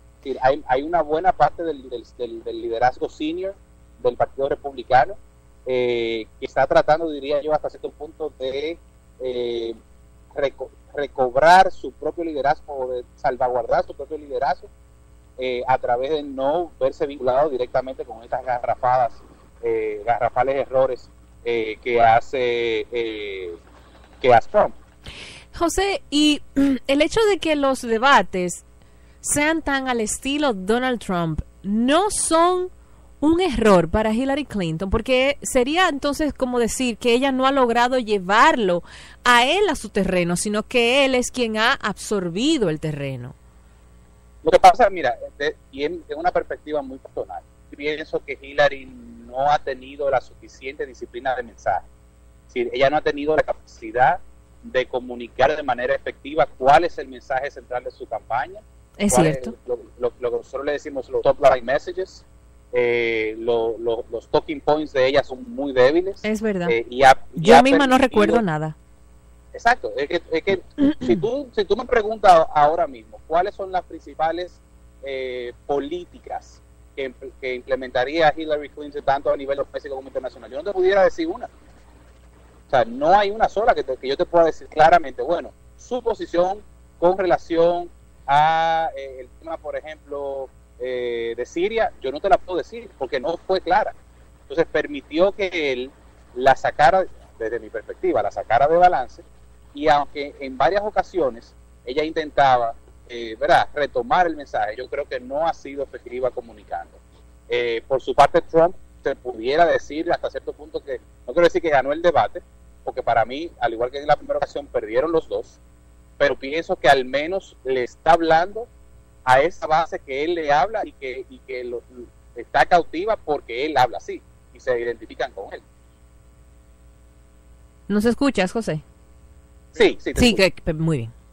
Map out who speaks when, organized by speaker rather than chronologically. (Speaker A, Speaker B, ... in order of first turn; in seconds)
Speaker A: 0.2-9.8, 10.3-14.7, 15.4-23.6, 24.2-24.7, 44.4-51.8, 52.5-68.4, 69.5-81.5, 82.7-93.9, 94.5-115.6, 116.2-118.7, 119.2-125.6, 129.8-130.4
Speaker B: 25.5-28.6, 29.2-32.7, 33.2-43.3, 59.0-59.5, 66.2-66.8, 67.3-68.7, 127.9-128.8, 130.2-131.1